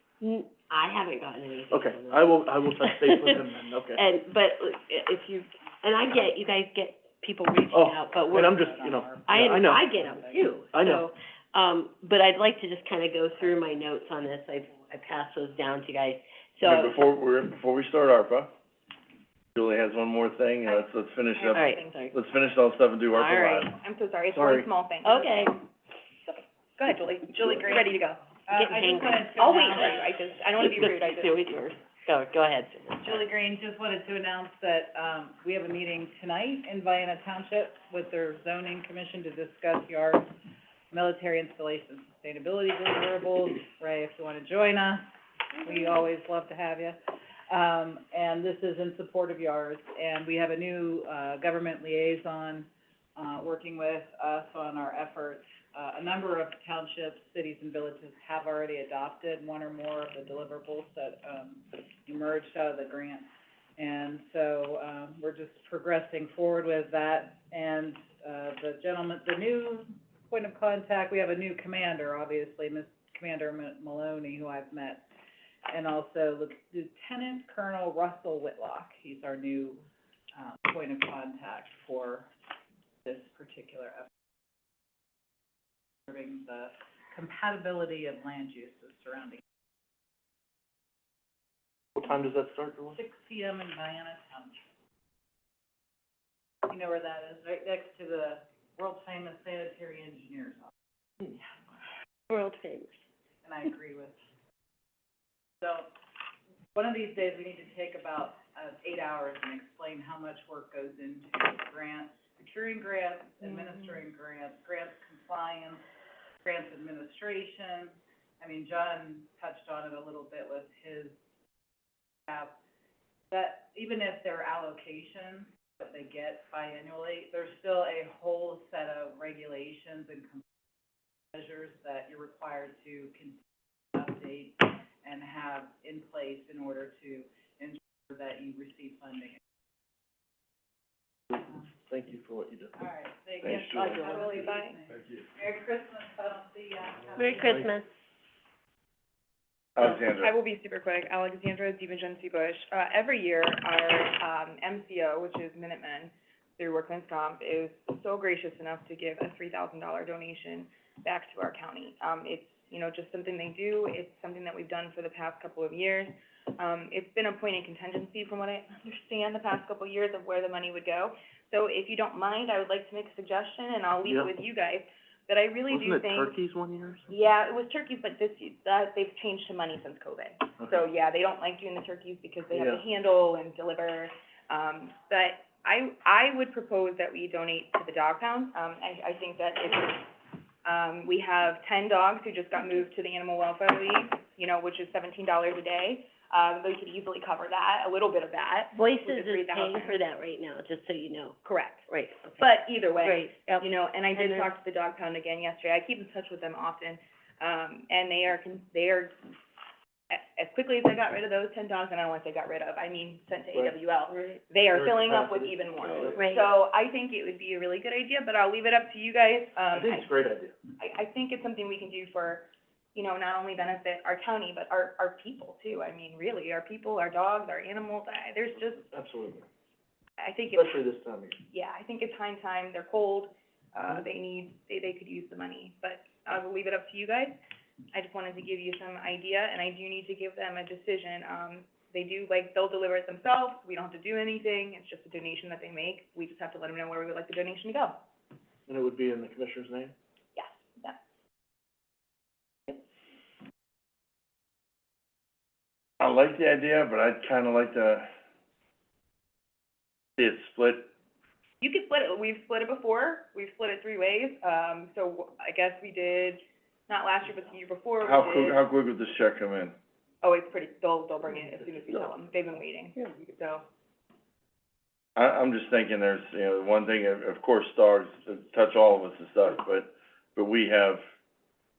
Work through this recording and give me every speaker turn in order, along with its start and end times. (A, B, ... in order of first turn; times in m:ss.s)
0:00.2-0:08.5 A
0:01.7-0:04.0 B
0:07.7-0:09.8 B
0:08.2-0:10.6 C
0:09.2-0:17.0 A
0:10.7-0:11.1 B
0:16.6-0:18.5 D
0:19.5-0:23.7 D
0:20.6-0:22.1 E
0:21.5-0:22.1 A
0:23.1-0:23.7 A
0:23.6-0:25.6 E
0:24.3-0:24.7 B
0:25.0-0:25.6 A
0:26.8-0:28.3 E
0:28.4-0:30.1 C
0:28.5-0:29.9 A
0:29.3-0:31.4 E
0:30.6-0:33.2 A
0:33.0-0:40.3 C
0:40.9-0:45.1 C
0:45.6-0:47.0 C
0:47.5-1:15.1 C
1:15.7-1:19.8 C
1:20.3-1:22.3 C
1:23.0-1:24.1 C
1:26.1-1:29.4 C
1:32.0-1:33.0 B
1:32.9-1:34.6 C
1:36.7-1:40.7 C
1:42.3-1:43.0 A
1:43.4-1:44.2 C
1:45.6-1:45.9 C
1:46.7-1:55.8 C
1:56.4-2:01.2 C
2:02.3-2:02.6 C
2:03.3-2:10.4 C
2:11.3-2:13.4 C
2:13.9-2:19.4 C
2:21.3-2:22.7 B
2:22.8-2:27.7 C
2:23.4-2:24.0 D
2:23.4-2:23.8 B
2:23.8-2:24.8 E
2:27.2-2:27.9 A
2:29.8-2:30.3 D
2:30.2-2:56.3 E
2:54.0-2:54.3 B
2:55.7-2:57.1 B
2:57.1-3:10.1 E
3:02.5-3:02.8 B
3:10.6-3:20.0 E
3:18.7-3:21.4 A
3:21.4-3:21.8 E
3:21.9-3:22.4 A
3:22.4-3:29.2 E
3:23.0-3:24.5 A
3:30.1-3:40.1 E
3:34.1-3:34.4 A
3:34.7-3:36.3 B
3:36.2-3:36.4 A
3:39.7-3:40.5 B
3:40.8-3:48.8 E
3:48.7-3:49.4 B
3:50.2-3:50.8 E
3:50.5-3:51.4 B
3:51.5-3:57.4 E
3:57.9-4:08.0 E
4:08.7-4:09.9 B
4:10.4-4:11.0 E
4:16.0-4:18.1 D
4:20.2-4:20.9 D
4:21.6-4:28.6 E
4:28.0-4:29.7 D
4:30.2-4:33.6 E
4:35.2-4:41.0 D